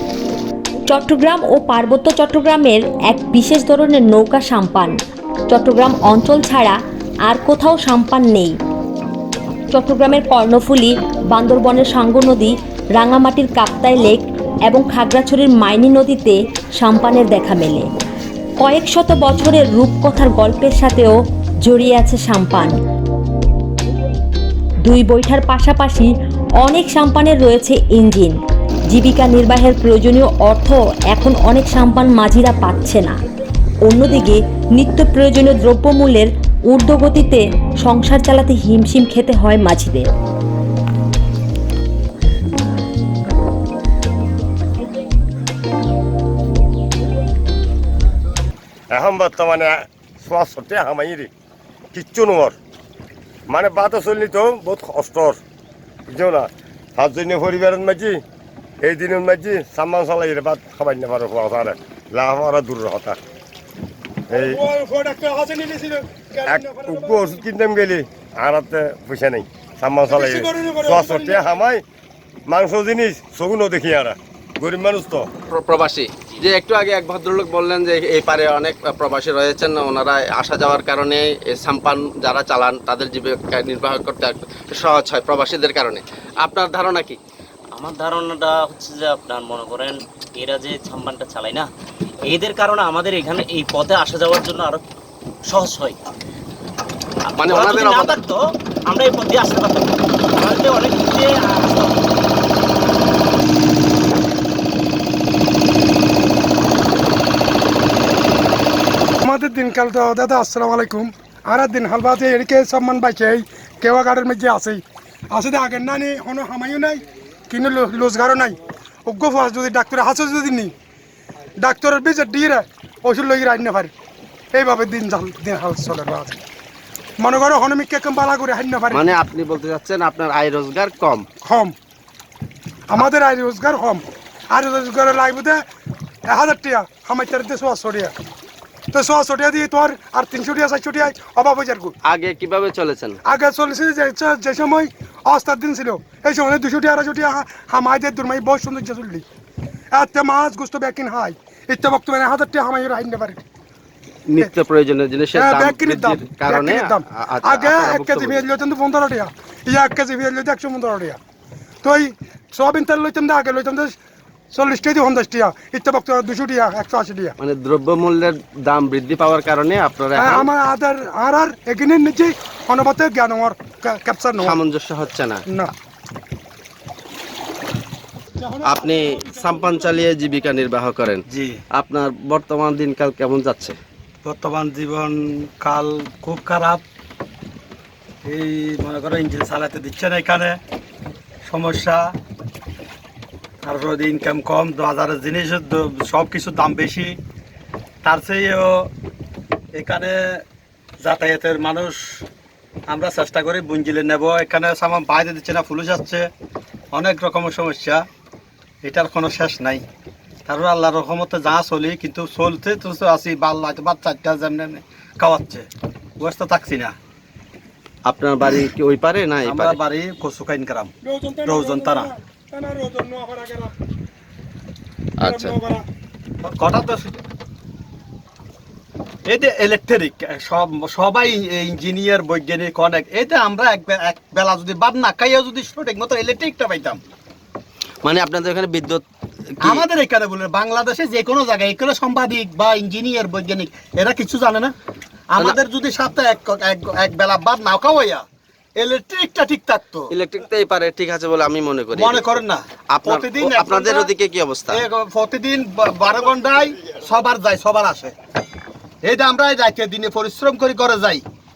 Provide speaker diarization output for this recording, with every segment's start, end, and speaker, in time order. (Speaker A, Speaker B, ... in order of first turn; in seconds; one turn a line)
Speaker A: 0.9-5.0
Speaker A: 5.5-8.6
Speaker A: 9.7-17.9
Speaker A: 18.6-22.8
Speaker A: 24.9-28.4
Speaker A: 28.9-33.2
Speaker A: 33.9-40.1
Speaker B: 48.9-51.3
Speaker B: 51.9-52.6
Speaker B: 53.5-55.4
Speaker B: 56.1-58.2
Speaker B: 58.8-63.2
Speaker C: 64.3-67.4
Speaker B: 64.3-64.6
Speaker B: 66.5-71.8
Speaker C: 70.1-71.5
Speaker B: 72.5-75.3
Speaker D: 75.5-87.2
Speaker E: 87.7-91.7
Speaker E: 92.3-94.8
Speaker E: 95.5-96.0
Speaker E: 97.3-102.0
Speaker D: 97.4-98.3
Speaker C: 109.2-120.7
Speaker C: 121.6-123.9
Speaker C: 124.5-126.4
Speaker C: 127.2-129.1
Speaker D: 128.9-131.3
Speaker C: 131.4-131.7
Speaker C: 132.9-135.6
Speaker C: 136.3-138.1
Speaker C: 138.9-141.9
Speaker D: 142.1-143.2
Speaker C: 143.3-149.2
Speaker C: 149.9-153.4
Speaker D: 154.3-158.4
Speaker C: 155.3-161.2
Speaker C: 161.8-164.0
Speaker C: 164.5-167.4
Speaker D: 167.4-170.5
Speaker C: 170.1-174.6
Speaker D: 174.4-175.4
Speaker C: 178.4-180.3
Speaker D: 178.6-181.2
Speaker F: 181.3-181.6
Speaker D: 181.8-183.8
Speaker F: 184.2-186.8
Speaker F: 188.3-190.6
Speaker F: 191.5-192.1
Speaker F: 193.6-197.2
Speaker F: 198.0-198.9
Speaker F: 199.8-200.4
Speaker F: 201.0-202.2
Speaker F: 202.9-206.3
Speaker F: 206.9-208.1
Speaker F: 208.8-209.8
Speaker F: 210.4-215.7
Speaker F: 216.2-216.9
Speaker D: 218.1-219.8
Speaker F: 219.4-220.9
Speaker C: 221.0-223.7
Speaker F: 221.4-222.1
Speaker D: 225.2-225.6
Speaker C: 225.2-225.8
Speaker F: 226.4-227.2
Speaker F: 229.3-237.0
Speaker D: 238.0-239.1
Speaker D: 239.6-239.9
Speaker F: 239.6-244.7
Speaker F: 245.3-248.2
Speaker F: 248.8-250.1
Speaker D: 250.1-254.8
Speaker F: 251.9-254.1
Speaker F: 254.7-258.1
Speaker F: 259.0-261.2